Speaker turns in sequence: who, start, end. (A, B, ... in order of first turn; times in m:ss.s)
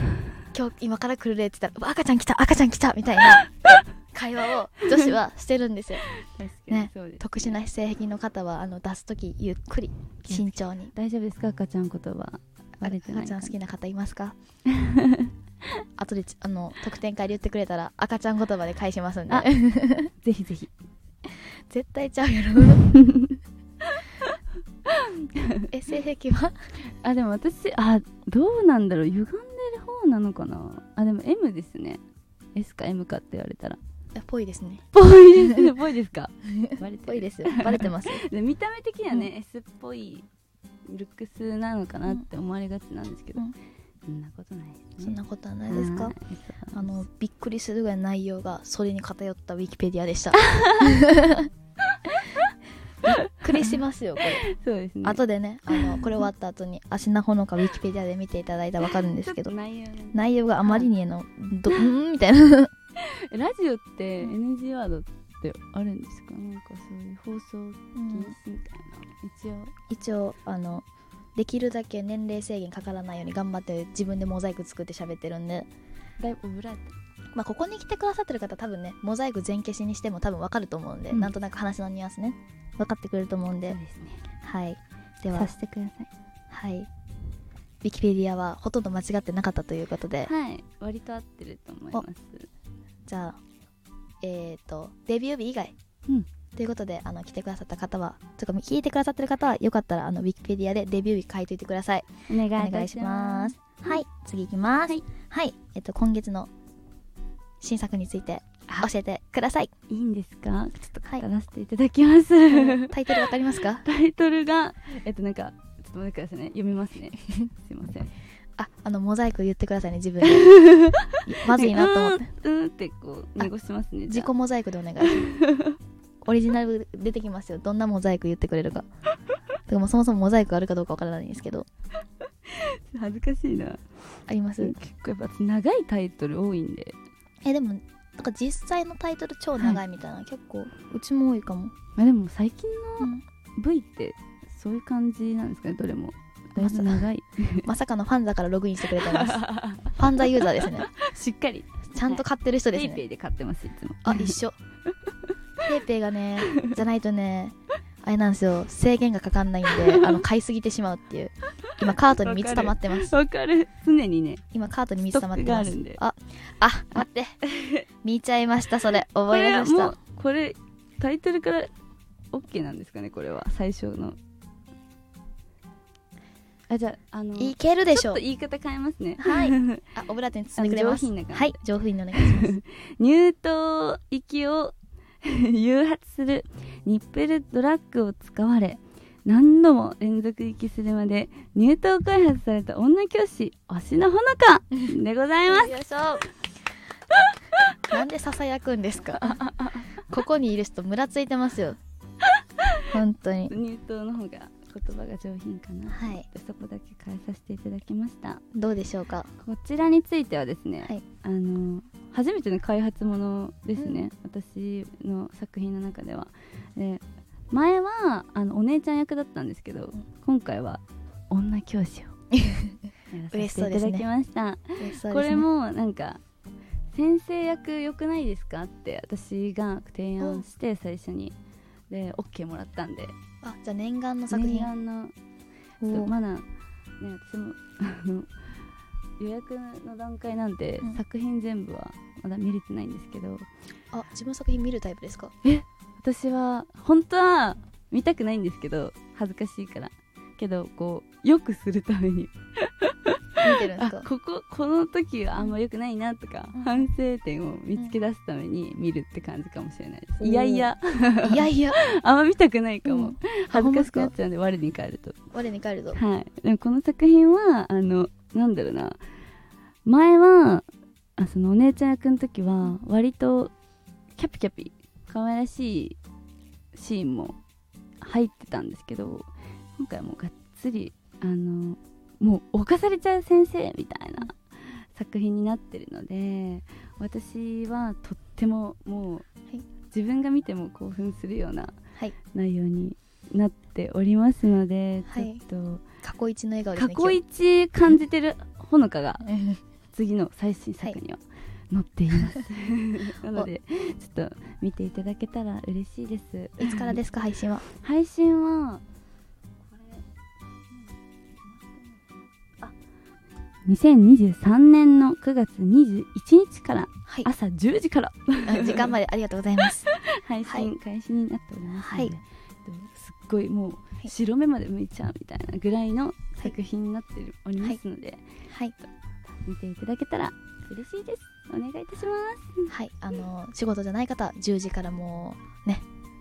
0:00.5-0:06.1 A
0:06.2-0:07.6 B
0:06.7-0:10.9 A
0:10.3-0:13.5 B
0:12.8-0:14.4 A
0:14.7-0:15.3 B
0:16.0-0:20.1 A
0:20.1-0:20.7 B
0:21.4-0:22.9 A
0:22.7-0:23.4 B
0:24.8-0:25.7 B
0:25.7-0:26.6 A
0:27.0-0:32.0 B
0:32.5-0:33.8 B
0:34.1-0:34.8 A
0:34.9-0:40.3 B
0:36.5-0:38.2 A
0:40.8-0:43.5 B
0:44.0-0:46.9 B
0:45.0-0:46.1 A
0:46.7-0:51.5 A
0:50.3-0:51.1 B
0:51.9-0:52.1 B
0:53.0-0:54.4 A
0:53.1-0:56.2 B
0:55.0-0:59.5 A
0:59.1-1:00.9 B
1:00.1-1:02.7 A
1:03.0-1:09.8 B
1:07.9-1:08.3 A
1:09.9-1:10.8 A
1:11.4-1:15.7 A
1:16.2-1:16.9 B
1:17.3-1:23.8 A
1:23.7-1:24.2 B
1:24.4-1:25.5 A
1:25.3-1:26.1 B
1:26.5-1:26.9 A
1:27.8-1:30.3 A
1:30.2-1:32.5 B
1:33.1-1:33.4 A
1:34.2-1:35.7 A
1:36.6-1:46.5 A
1:42.3-1:44.0 B
1:47.6-1:49.7 A
1:49.9-1:53.2 B
1:52.5-1:53.8 A
1:53.8-1:58.1 B
1:58.6-2:00.5 A
2:00.2-2:04.3 B
2:01.2-2:02.3 A
2:04.1-2:05.3 A
2:05.0-2:05.8 B
2:06.2-2:08.8 A
2:09.7-2:11.7 A
2:12.4-2:13.8 B
2:14.3-2:14.7 A
2:14.6-2:17.0 B
2:17.4-2:21.7 A
2:22.0-2:27.7 B
2:26.6-2:27.0 A
2:27.6-2:30.9 A
2:28.9-2:34.4 B
2:31.9-2:33.0 A
2:34.0-2:34.6 A
2:34.9-2:35.3 B
2:35.6-2:43.1 A
2:39.7-2:40.2 B
2:41.8-2:44.4 B
2:44.5-2:47.4 A
2:45.1-2:46.0 B
2:46.9-2:47.8 B
2:48.0-2:50.0 A
2:49.3-2:51.7 B
2:52.3-2:54.2 B
2:56.7-2:59.9 B
2:57.4-2:58.2 A
2:59.2-3:02.6 A
3:00.6-3:01.6 B
3:02.1-3:15.8 B
3:15.5-3:16.3 A
3:17.9-3:21.8 A
3:19.2-3:19.9 B
3:22.9-3:23.5 A
3:23.5-3:28.4 B
3:25.9-3:26.3 A
3:28.5-3:29.3 A
3:29.4-3:42.2 B
3:33.8-3:34.0 A
3:42.3-3:42.7 A
3:43.1-3:46.2 B
3:43.3-3:44.0 A
3:44.8-3:45.4 A
3:46.9-3:51.4 B
3:51.9-3:53.1 B
3:53.4-3:54.7 A
3:54.3-3:55.1 B
3:55.8-3:56.1 A
3:55.9-3:56.4 B
3:57.0-3:58.3 B
3:59.2-4:03.5 B
4:03.9-4:05.3 A
4:05.4-4:25.2 B
4:13.4-4:14.1 A
4:16.5-4:16.9 A
4:20.2-4:20.7 A
4:21.2-4:21.8 A
4:22.8-4:24.1 A
4:25.3-4:26.0 A
4:25.9-4:29.0 B
4:29.8-4:30.6 B
4:31.2-4:33.5 B
4:34.2-4:36.0 B
4:36.7-4:37.4 B
4:38.0-4:49.2 B
4:49.9-4:51.8 B
4:52.3-4:55.8 B
4:55.1-4:55.4 A
4:56.0-4:57.2 A
4:56.7-4:59.2 B
4:59.2-4:59.6 A
4:59.9-5:07.0 B
5:06.6-5:07.6 A
5:07.6-5:08.8 B
5:13.6-5:18.9 B
5:18.4-5:19.9 A
5:19.9-5:28.3 B
5:20.4-5:20.7 A
5:21.7-5:22.1 A
5:28.5-5:28.7 A
5:29.3-5:32.7 B
5:32.7-5:35.8 A